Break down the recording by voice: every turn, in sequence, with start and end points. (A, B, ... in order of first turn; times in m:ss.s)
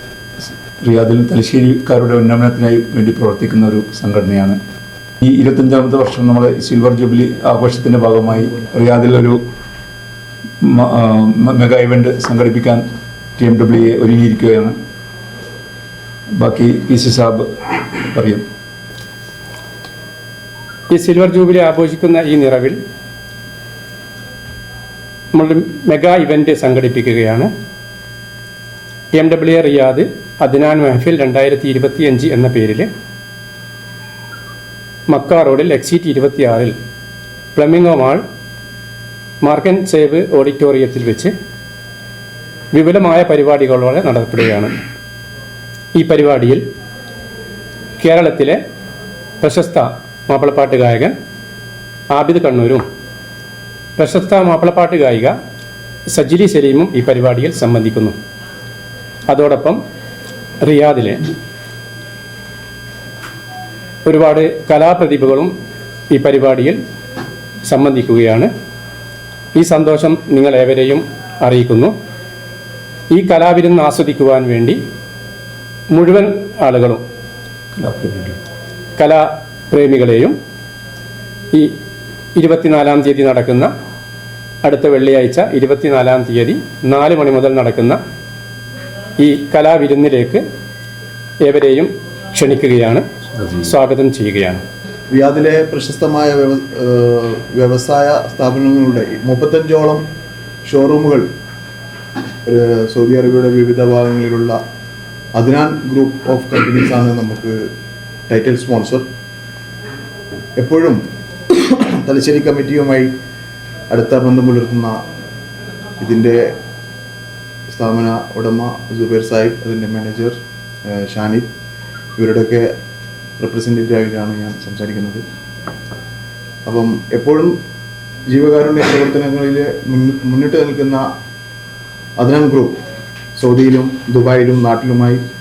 0:00.8-0:04.6 A
0:05.2-0:09.4 A
0:10.6-0:12.8 A
0:13.4-0:14.8 A
0:16.4-0:18.4 A
0:20.9-0:22.8 B
0:25.4-0:27.5 B
0:29.2-0:32.9 B
0:35.1-0:36.7 B
0:37.6-0:38.2 B
0:39.4-0:41.3 B
0:42.7-0:44.8 B
0:46.0-0:46.6 B
0:48.0-0:48.6 B
0:49.4-0:51.1 B
0:52.1-0:52.8 B
0:54.0-0:55.3 B
0:56.1-0:58.2 B
0:59.3-0:59.8 B
1:00.6-1:01.2 B
1:04.1-1:05.5 B
1:06.1-1:06.8 B
1:07.7-1:08.5 B
1:09.6-1:11.9 B
1:13.1-1:14.8 B
1:15.9-1:17.0 B
1:17.8-1:18.4 A
1:19.0-1:20.4 B
1:22.4-1:23.7 B
1:24.6-1:28.0 B
1:29.2-1:30.4 B
1:31.4-1:33.0 B
1:33.4-1:33.7 A
1:33.6-1:34.6 B
1:35.1-1:40.0 C
1:40.7-1:41.3 C
1:42.5-1:44.6 C
1:45.4-1:47.6 C
1:48.3-1:49.1 C
1:50.6-1:53.1 C
1:53.9-1:55.0 C
1:56.0-1:56.5 C
1:57.7-2:01.5 C
2:02.2-2:02.7 C
2:03.4-2:05.2 C
2:06.7-2:07.6 C
2:08.3-2:11.1 C
2:12.2-2:12.8 C
2:13.4-2:15.2 C